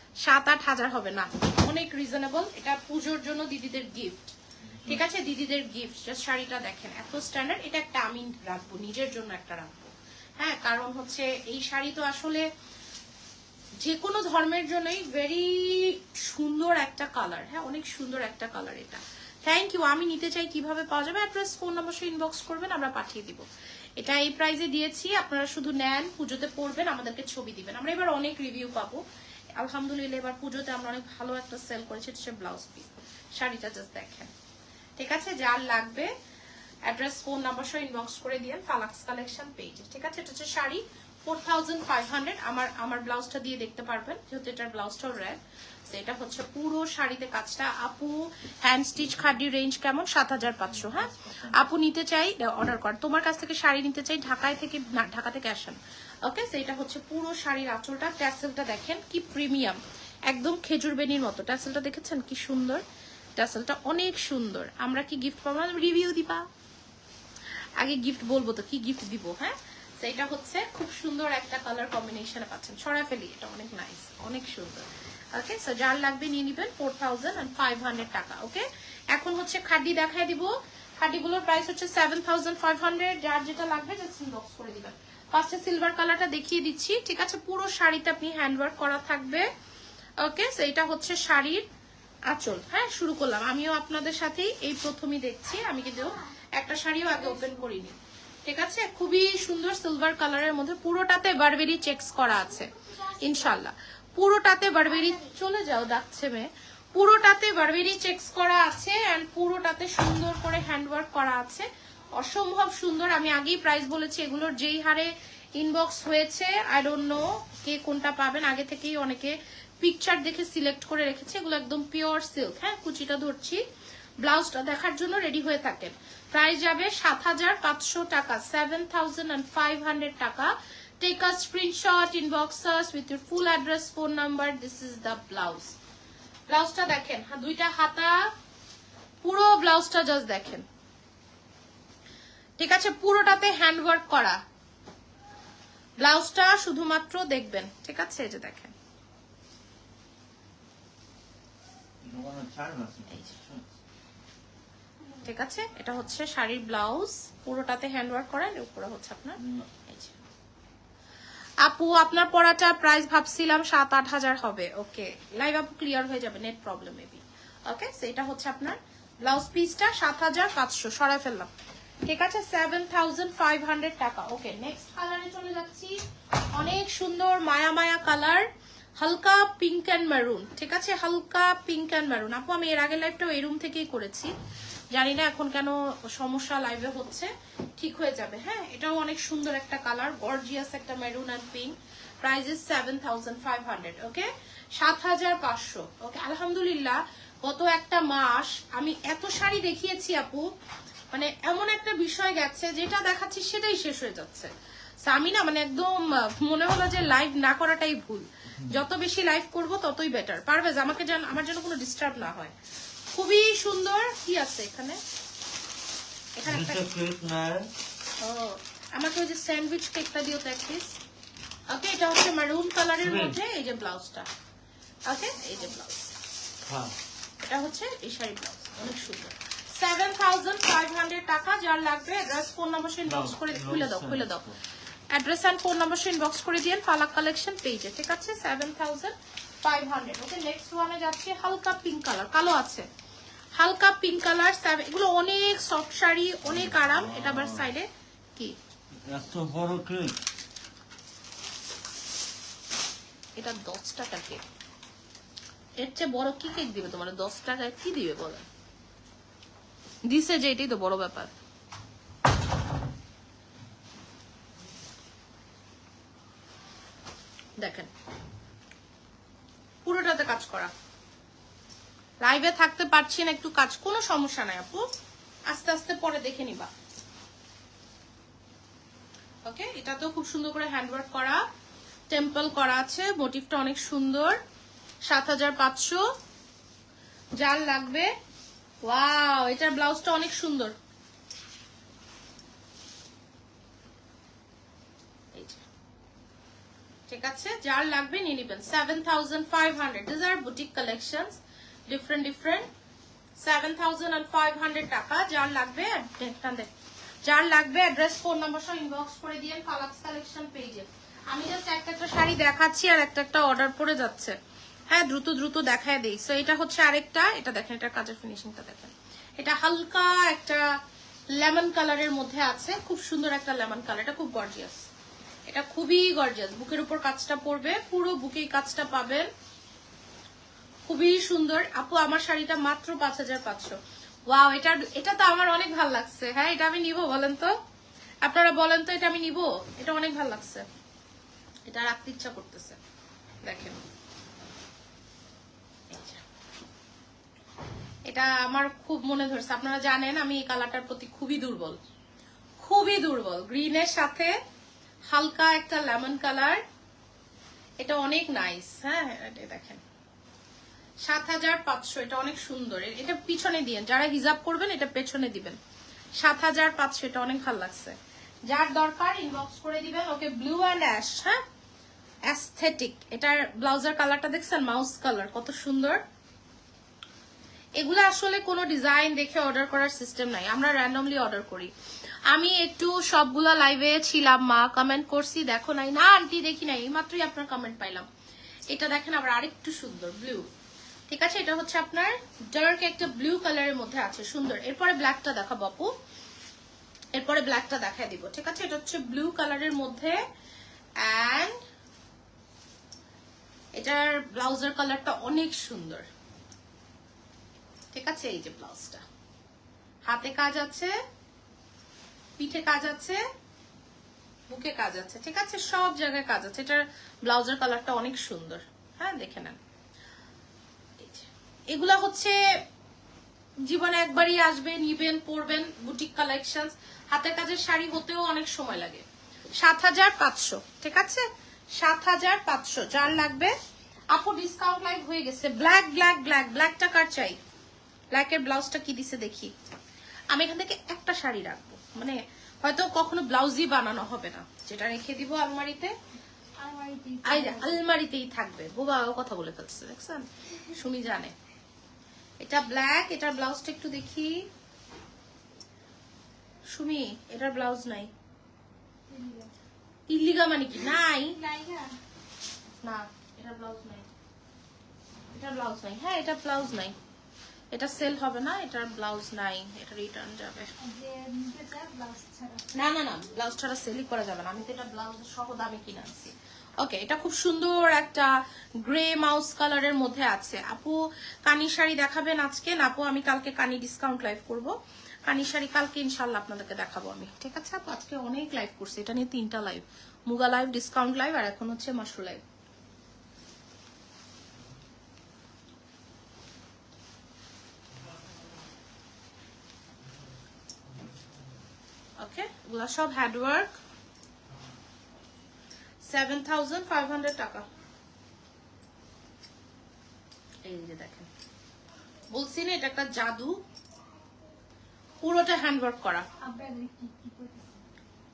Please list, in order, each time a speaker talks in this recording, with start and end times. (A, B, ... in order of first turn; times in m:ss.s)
0:00.2-0:04.3 A
0:04.6-0:05.0 B
0:04.8-0:12.4 A
0:13.8-0:23.4 A
0:24.0-0:29.0 A
0:29.6-0:34.3 A
0:35.0-0:36.1 A
0:36.8-1:02.8 A
0:50.4-0:51.7 B
1:03.4-1:06.4 A
1:07.8-1:29.5 A
1:30.2-1:31.6 A
1:32.3-2:03.6 A
1:43.1-1:43.6 C
2:04.2-2:15.7 A
2:16.5-2:18.3 A
2:19.2-2:20.6 A
2:22.6-2:24.4 A
2:26.0-2:28.7 A
2:32.0-2:33.7 B
2:33.1-2:33.3 A
2:35.2-2:40.1 A
2:39.4-2:39.6 B
2:41.6-2:51.5 A
2:52.0-2:56.0 A
2:56.5-2:58.4 A
2:59.0-3:04.3 A
3:04.9-3:20.5 A
3:21.1-3:24.5 A
3:25.0-3:32.5 A
3:33.1-3:35.0 A
3:36.4-3:36.8 A
3:36.5-3:37.7 B
3:38.2-3:41.0 A
3:41.7-3:44.3 A
3:43.0-3:43.4 B
3:45.1-3:46.1 A
3:46.7-3:46.9 B
3:47.4-3:54.4 A
3:53.1-3:54.6 B
3:55.1-4:02.9 A
4:03.6-4:08.5 A
4:06.4-4:07.7 B
4:09.0-4:10.2 B
4:13.4-4:14.4 A
4:15.8-4:18.4 A
4:20.1-4:21.3 A
4:27.6-4:27.9 A
4:29.8-4:30.7 A
4:32.2-4:34.9 A
4:35.5-4:36.7 A
4:39.4-4:41.4 A
4:42.1-4:44.4 A
4:45.0-4:46.0 A
4:47.4-4:48.1 A
4:48.8-4:50.7 A
4:55.3-4:55.6 A
4:57.1-5:02.7 A
5:03.4-5:06.7 A
5:07.2-5:14.4 A
5:14.9-5:20.6 A
5:21.4-5:24.8 A
5:25.5-5:29.3 A
5:30.9-5:33.8 A
5:34.3-5:37.5 A
5:38.2-5:40.6 A
5:41.7-5:42.8 A
5:43.4-5:43.8 A
5:45.9-5:46.2 A
5:48.1-5:51.8 A
5:52.6-5:54.3 A
5:55.1-5:56.6 A
5:57.8-5:59.8 A
6:01.0-6:05.6 A
6:06.2-6:08.0 A
6:08.5-6:11.4 A
6:12.3-6:16.0 A
6:17.8-6:21.7 A
6:22.3-6:28.0 A
6:28.7-6:30.5 A
6:31.1-6:35.9 A
6:37.1-6:40.2 A
6:41.0-6:41.6 A
6:43.8-6:46.0 A
6:47.9-6:49.0 A
6:50.1-6:50.9 A
6:52.4-6:53.2 A
6:54.5-6:59.6 A
7:01.0-7:02.4 A
7:03.6-7:09.0 A
7:09.6-7:11.2 A
7:11.8-7:13.5 A
7:14.1-7:17.4 A
7:18.1-7:19.5 A
7:20.3-7:25.9 A
7:26.6-7:27.8 C
7:27.2-7:31.3 A
7:32.4-7:34.5 A
7:36.7-7:38.1 A
7:39.1-7:39.5 C
7:40.1-7:41.4 A
7:41.3-7:42.0 C
7:42.8-7:44.0 A
7:45.3-7:46.9 A
7:47.7-7:50.7 A
7:50.8-7:52.7 C
7:52.7-7:58.3 A
7:58.8-8:04.7 A
8:05.3-8:12.4 A
8:22.2-8:23.7 A
8:26.0-8:27.6 A
8:30.6-8:31.3 A
8:32.3-8:33.6 A
8:35.2-8:36.2 A
8:36.4-8:37.8 C